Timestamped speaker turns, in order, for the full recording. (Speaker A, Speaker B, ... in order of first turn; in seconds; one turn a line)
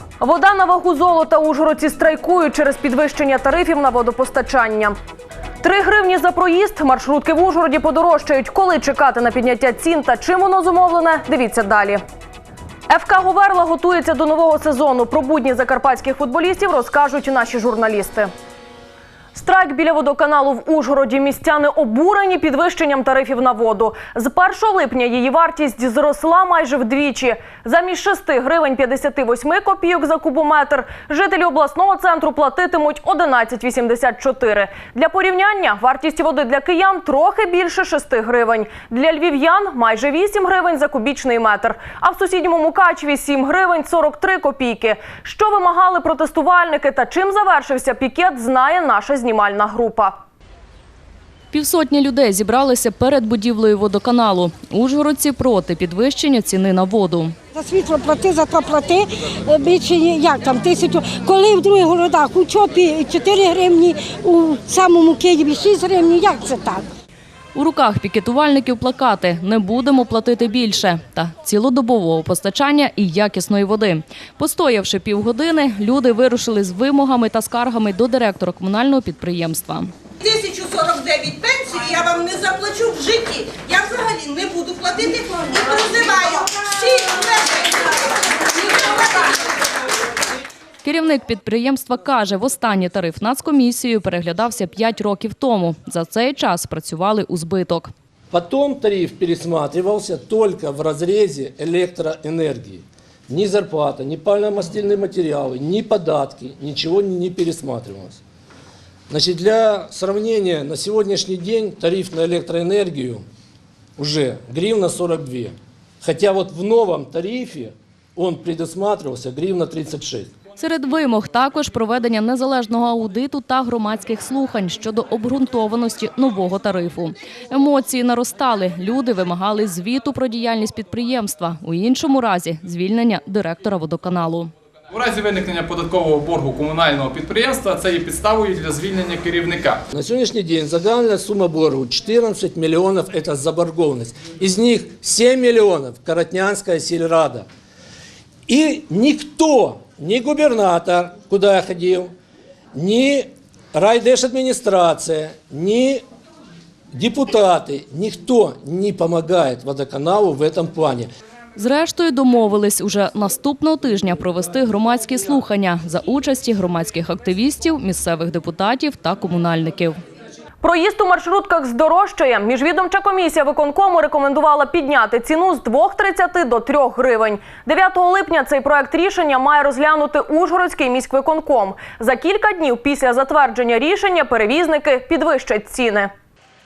Speaker A: 0.2-5.0
Speaker A: 5.6-12.0
Speaker A: 12.9-18.3
Speaker A: 19.3-50.1
Speaker B: 51.5-57.3
Speaker C: 57.5-66.8
Speaker B: 67.5-79.9
Speaker D: 80.2-87.5
Speaker B: 90.8-97.9
Speaker E: 98.3-108.2
Speaker E: 109.1-113.2
Speaker E: 114.0-120.3
Speaker B: 120.6-134.5
Speaker F: 134.9-139.8
Speaker E: 139.9-147.4
Speaker E: 148.5-152.1
Speaker E: 152.7-156.0
Speaker E: 156.9-161.1
Speaker B: 161.6-170.0
Speaker A: 170.6-186.1